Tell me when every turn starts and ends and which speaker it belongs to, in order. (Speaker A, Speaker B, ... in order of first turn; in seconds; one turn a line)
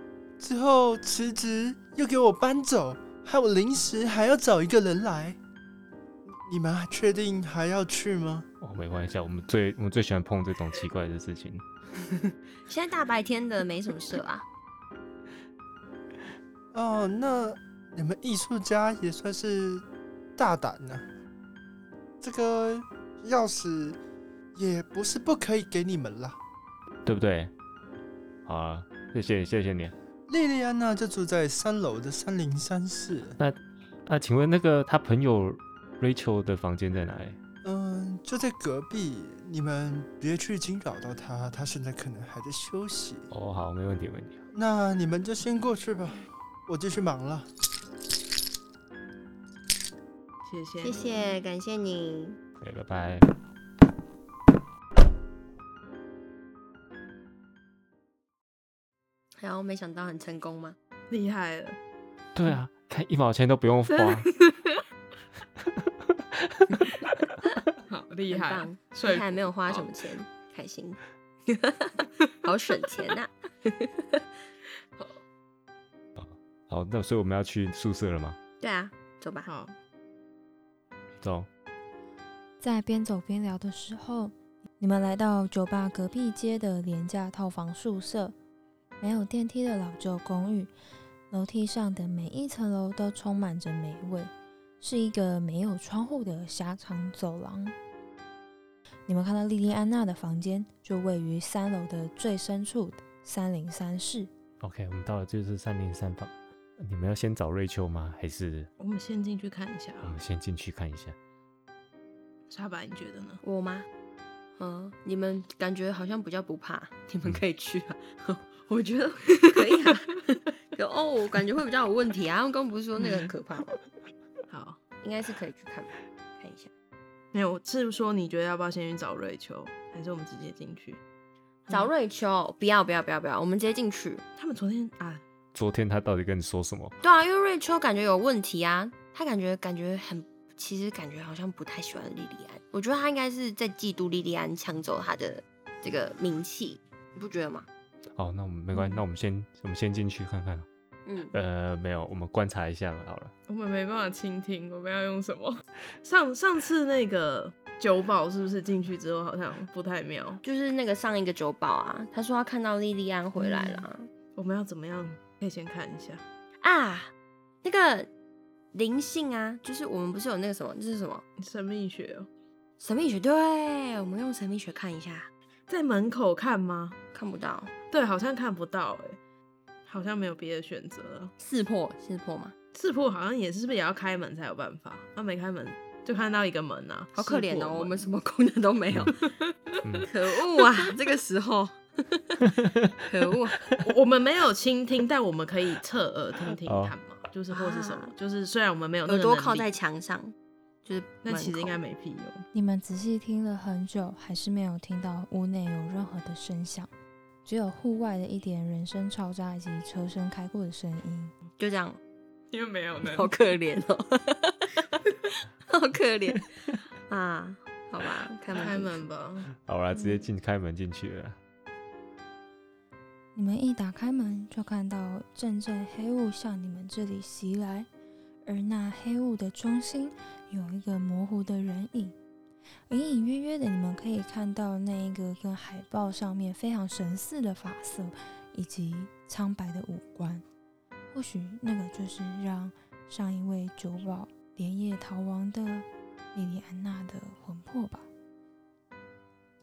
Speaker A: 0.4-5.4
Speaker A: 6.2-8.5
Speaker B: 8.6-11.6
Speaker C: 12.7-14.4
Speaker A: 16.7-19.8
Speaker A: 20.4-21.1
Speaker A: 22.2-24.0
Speaker A: 24.5-26.4
Speaker B: 27.0-27.5
Speaker B: 28.4-29.9
Speaker A: 30.3-33.4
Speaker B: 33.4-37.4
Speaker A: 37.6-43.3
Speaker B: 43.3-44.4
Speaker A: 44.5-47.5
Speaker D: 50.4-51.3
Speaker C: 50.8-52.4
Speaker B: 52.6-53.3
Speaker C: 59.4-60.8
Speaker D: 61.1-61.8
Speaker B: 62.3-64.4
Speaker D: 64.2-64.8
Speaker B: 65.8-66.9
Speaker D: 67.9-69.9
Speaker C: 68.3-71.0
Speaker D: 71.6-72.4
Speaker C: 72.4-73.9
Speaker B: 76.2-78.4
Speaker C: 78.6-79.5
Speaker D: 79.4-79.7
Speaker B: 81.2-81.5
Speaker E: 82.6-88.3
Speaker E: 89.0-90.7
Speaker E: 91.3-97.7
Speaker E: 99.1-104.3
Speaker B: 104.6-108.7
Speaker D: 108.8-110.2
Speaker B: 110.0-111.2
Speaker D: 112.5-113.4
Speaker C: 113.4-113.9
Speaker C: 114.6-123.8
Speaker D: 119.4-120.0
Speaker D: 123.0-123.3
Speaker D: 124.5-124.8
Speaker C: 125.0-126.7
Speaker D: 127.3-131.0
Speaker D: 131.7-131.9
Speaker C: 131.7-134.2
Speaker D: 134.4-135.2
Speaker B: 135.5-137.0
Speaker C: 137.0-147.7
Speaker B: 148.2-150.7
Speaker C: 151.1-151.3
Speaker B: 151.3-153.3
Speaker D: 153.5-160.4
Speaker C: 160.4-164.1
Speaker D: 163.3-166.2
Speaker C: 166.6-168.1
Speaker C: 168.7-171.2
Speaker D: 171.4-172.3
Speaker C: 172.8-175.3
Speaker D: 175.7-177.0
Speaker C: 177.1-177.7
Speaker D: 177.9-179.2
Speaker D: 179.8-181.3
Speaker C: 181.4-182.5
Speaker D: 182.7-187.9
Speaker C: 187.2-189.2
Speaker D: 189.1-189.8
Speaker B: 189.8-190.1
Speaker C: 190.1-192.5
Speaker D: 190.6-190.9
Speaker B: 192.4-192.9
Speaker C: 193.0-193.7
Speaker D: 193.8-199.8
Speaker B: 196.6-196.9
Speaker C: 197.5-198.1
Speaker C: 199.1-201.8
Speaker D: 201.2-202.4
Speaker E: 202.5-206.9
Speaker E: 207.4-211.3
Speaker C: 211.6-212.0
Speaker D: 212.5-213.3
Speaker C: 213.1-216.5
Speaker C: 217.1-219.0
Speaker D: 218.5-219.5
Speaker B: 219.6-221.4
Speaker C: 219.9-220.2
Speaker E: 223.3-227.9
Speaker E: 228.4-232.1
Speaker E: 232.9-240.4
Speaker E: 241.1-248.1